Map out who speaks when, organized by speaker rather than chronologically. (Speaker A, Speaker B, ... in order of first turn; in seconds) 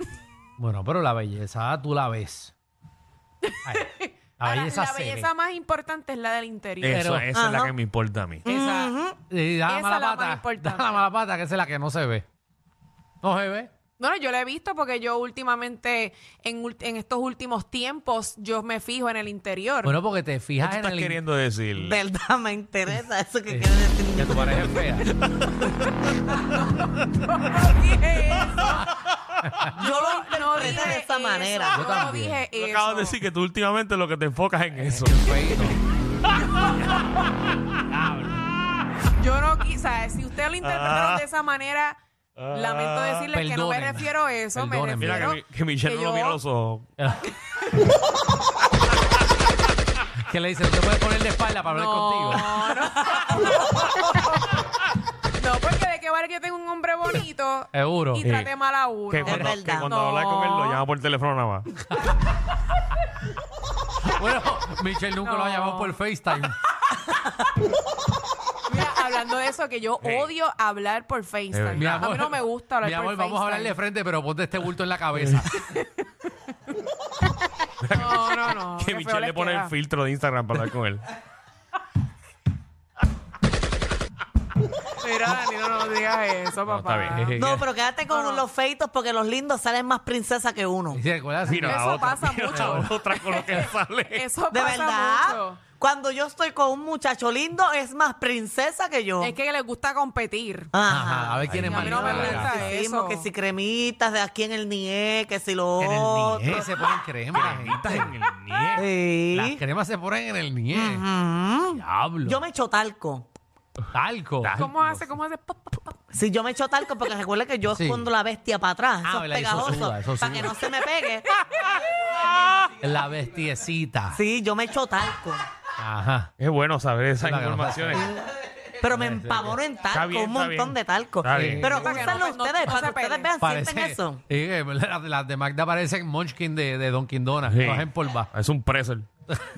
Speaker A: 0.6-2.5, 3.6-5.3, 6.9-7.3, 8.4-12.2, 13.2-13.7, 19.8-21.2, 23.5-25.1, 31.7-32.4, 34.7-35.8, 38.0-38.4, 43.3-45.4, 47.0-47.3, 50.2-52.7, 57.7-58.2, 59.3-59.6, 64.0-66.5, 71.7-75.5, 87.1-87.7, 90.9-91.8, 92.5-92.9, 100.8-102.7, 105.8-108.1, 109.3-111.0, 111.7-112.4, 113.9-114.6, 117.7-118.1, 119.0-120.5, 122.8-124.2, 125.8-126.3, 127.2-128.2, 128.9-129.6, 131.3-132.2, 133.4-138.3
Speaker B: 3.4-7.0, 9.7-11.0, 14.0-20.0, 26.4-28.9, 29.8-33.2, 39.1-42.0, 42.5-46.4, 51.7-54.5, 55.4-60.8, 65.2-66.0, 68.7-73.8, 75.5-76.0, 77.9-79.7, 85.0-87.4, 88.1-88.4, 91.6-95.6, 99.2-100.7, 101.7-103.3, 114.6-116.0, 131.7-133.3
Speaker C: 6.8-8.4, 20.6-22.0, 32.5-35.1, 40.6-41.2, 42.4-43.3, 45.0-46.9, 58.2-58.5, 59.1-61.7, 70.0-70.3, 71.5-72.0, 77.8-81.0, 86.6-87.3, 91.5-94.2, 101.4-102.3, 107.3-108.9, 114.4-114.8, 126.4-128.1, 129.9-131.8, 137.5-139.1
Speaker D: 7.3-7.7, 8.4-9.2, 21.8-24.8, 29.7-31.8, 59.2-59.9, 87.3-91.0, 94.5-99.3, 100.7-106.7, 108.8-109.6, 110.7-113.2, 116.1-121.3, 124.1-125.4, 128.8-134.2